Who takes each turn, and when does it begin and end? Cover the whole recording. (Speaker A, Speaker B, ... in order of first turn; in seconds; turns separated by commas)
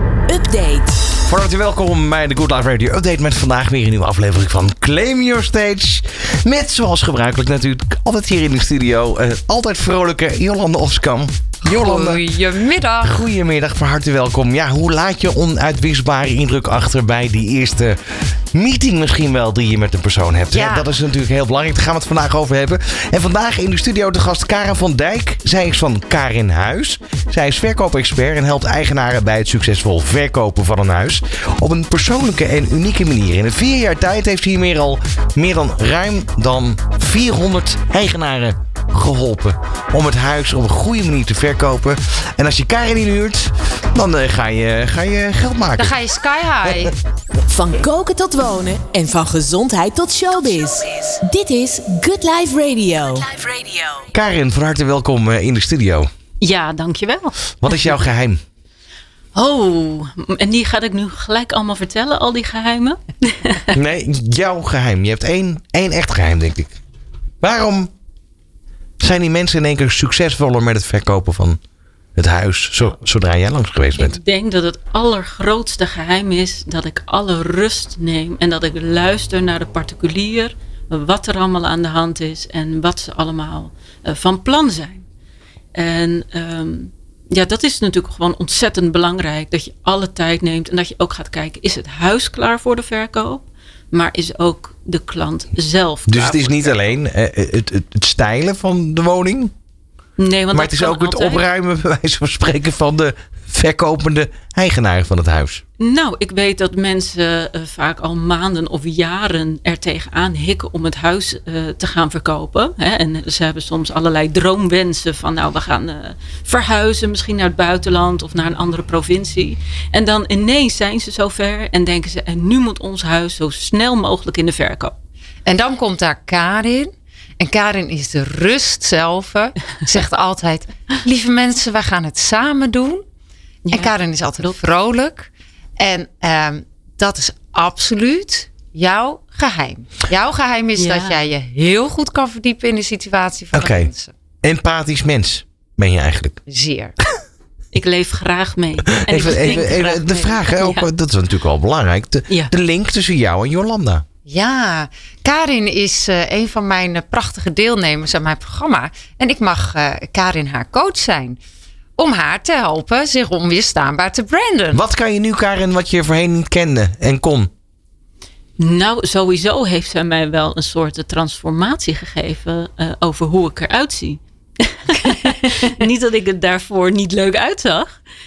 Speaker A: 0.3-1.1, Speaker B: 1.2-12.2, Speaker C: 11.6-13.3, Speaker B: 13.0-18.0, Speaker B: 18.5-46.0, Speaker C: 20.5-20.9, Speaker C: 45.8-47.0, Speaker B: 46.7-46.9, Speaker A: 47.5-54.0, Speaker B: 54.1-56.1, Speaker D: 56.4-57.8, Speaker B: 57.6-58.4, Speaker D: 59.3-63.7, Speaker B: 63.7-66.8, Speaker B: 67.4-67.9, Speaker B: 69.0-71.6, Speaker B: 72.2-74.2, Speaker D: 74.0-85.0, Speaker D: 85.7-96.8, Speaker B: 96.1-99.5, Speaker D: 100.2-101.4, Speaker B: 100.5-105.6, Speaker D: 105.8-125.0, Speaker C: 125.5-133.0, Speaker D: 133.7-134.6, Speaker C: 133.7-144.1, Speaker D: 140.8-141.2, Speaker B: 143.5-143.9, Speaker B: 144.4-146.4, Speaker C: 146.5-146.9, Speaker D: 147.7-150.9, Speaker B: 149.0-154.0, Speaker C: 149.1-150.3, Speaker C: 154.2-161.4, Speaker C: 162.0-164.8, Speaker B: 164.7-167.5, Speaker D: 168.6-178.0